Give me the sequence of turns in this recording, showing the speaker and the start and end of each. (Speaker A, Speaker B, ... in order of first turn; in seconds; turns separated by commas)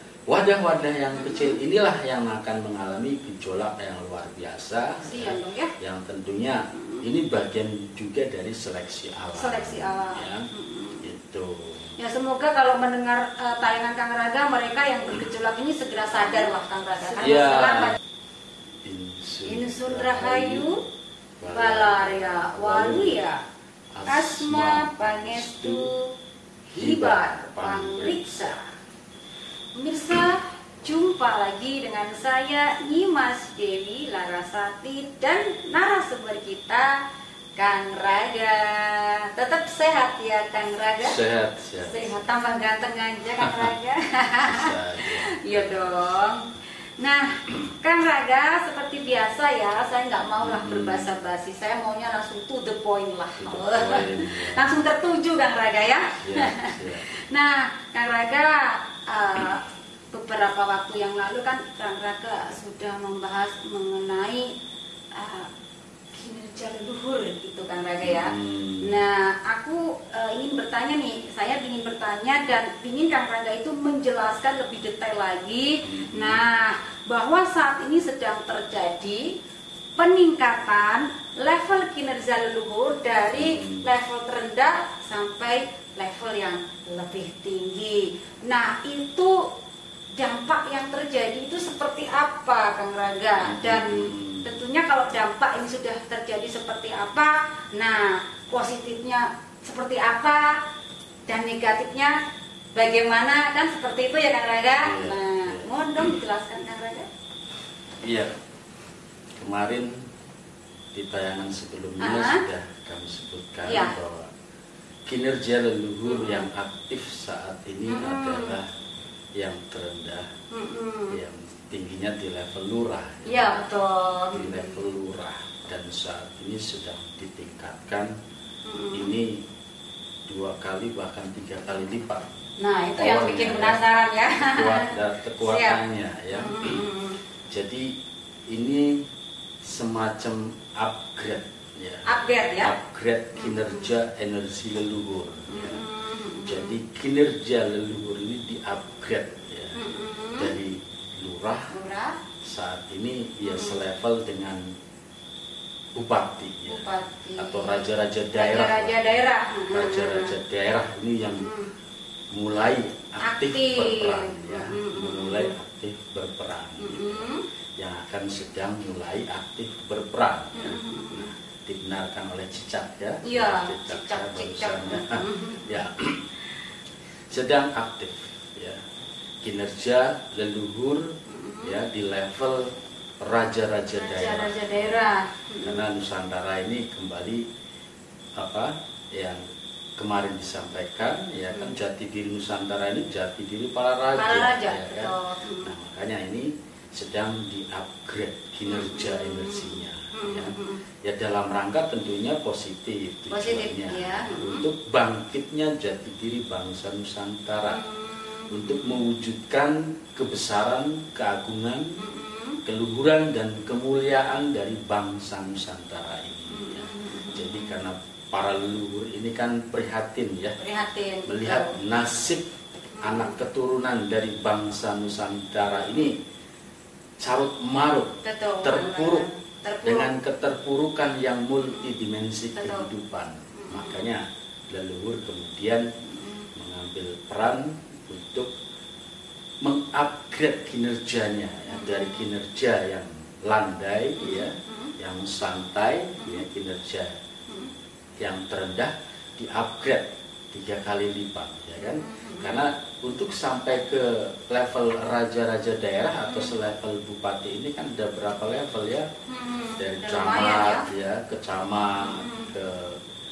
Speaker A: 0.3-10.5, Speaker B: 1.1-1.6, Speaker B: 5.0-5.7, Speaker B: 6.7-7.0, Speaker B: 9.3-11.1, Speaker A: 11.0-11.9, Speaker B: 12.0-18.0, Speaker A: 17.2-18.0, Speaker A: 18.8-20.7, Speaker B: 19.5-20.8, Speaker A: 21.4-23.2, Speaker B: 21.5-23.4, Speaker A: 23.9-25.9, Speaker B: 24.1-26.1, Speaker A: 26.7-28.6, Speaker B: 26.8-28.6, Speaker B: 29.8-37.0, Speaker B: 37.6-41.2, Speaker A: 41.0-42.0, Speaker B: 41.9-46.5, Speaker A: 43.4-43.7, Speaker A: 44.4-46.2, Speaker B: 47.0-64.5, Speaker A: 50.4-51.1, Speaker A: 53.4-54.8, Speaker A: 56.2-57.1, Speaker B: 65.1-65.5, Speaker B: 66.1-79.3, Speaker A: 68.0-68.9, Speaker A: 75.8-76.4, Speaker B: 80.0-89.5, Speaker A: 83.3-83.9, Speaker B: 90.2-100.6, Speaker A: 93.4-94.5, Speaker B: 101.3-102.2, Speaker B: 102.7-107.1, Speaker A: 104.8-105.6, Speaker A: 108.0-108.3, Speaker A: 109.4-110.0, Speaker A: 110.9-114.3, Speaker B: 112.0-112.4, Speaker B: 113.7-114.0, Speaker A: 115.1-118.7, Speaker B: 116.1-116.5, Speaker B: 117.9-118.6, Speaker A: 119.4-120.3, Speaker B: 120.5-121.2, Speaker A: 121.1-123.6, Speaker B: 123.3-124.8, Speaker A: 124.3-128.1, Speaker B: 128.7-129.1, Speaker A: 128.9-129.4, Speaker A: 130.3-132.2, Speaker B: 132.6-135.8, Speaker A: 133.0-133.8, Speaker A: 134.4-136.8, Speaker B: 136.3-137.2, Speaker A: 137.5-137.9, Speaker A: 138.5-139.0, Speaker A: 139.6-145.8, Speaker B: 142.1-142.7, Speaker B: 143.4-143.9, Speaker B: 145.5-146.8, Speaker A: 146.4-149.8, Speaker B: 149.8-150.6, Speaker A: 150.4-151.7, Speaker B: 151.7-152.2, Speaker A: 152.4-154.7, Speaker B: 153.4-153.8, Speaker A: 155.9-159.2, Speaker B: 156.7-160.3, Speaker A: 159.7-161.5, Speaker B: 161.2-161.7, Speaker A: 162.3-176.2, Speaker B: 163.2-165.6, Speaker B: 166.8-167.4, Speaker B: 170.6-171.3, Speaker B: 173.2-175.8, Speaker A: 177.3-178.8, Speaker A: 179.4-181.1, Speaker B: 181.3-181.8, Speaker A: 181.6-184.9, Speaker B: 183.9-185.9, Speaker A: 185.6-187.4, Speaker A: 188.4-189.4, Speaker A: 190.0-207.8, Speaker B: 194.1-195.7, Speaker B: 198.7-200.8, Speaker B: 203.3-204.7, Speaker B: 207.7-209.1, Speaker A: 208.5-212.0, Speaker B: 212.0-212.6, Speaker A: 212.7-220.6, Speaker B: 216.5-217.8, Speaker B: 220.6-221.8, Speaker A: 221.3-222.4, Speaker B: 223.0-223.4, Speaker A: 223.0-226.2, Speaker A: 227.2-229.3, Speaker B: 228.2-230.1, Speaker A: 229.8-235.9, Speaker B: 232.6-232.9, Speaker B: 233.6-234.1, Speaker B: 236.0-236.5, Speaker A: 236.6-238.5, Speaker A: 239.6-247.1, Speaker B: 241.7-242.3, Speaker B: 244.2-244.9, Speaker B: 246.2-246.4, Speaker A: 248.2-259.1, Speaker B: 251.8-252.6, Speaker B: 256.3-256.6, Speaker B: 259.3-260.9, Speaker A: 259.8-263.0, Speaker B: 262.0-262.5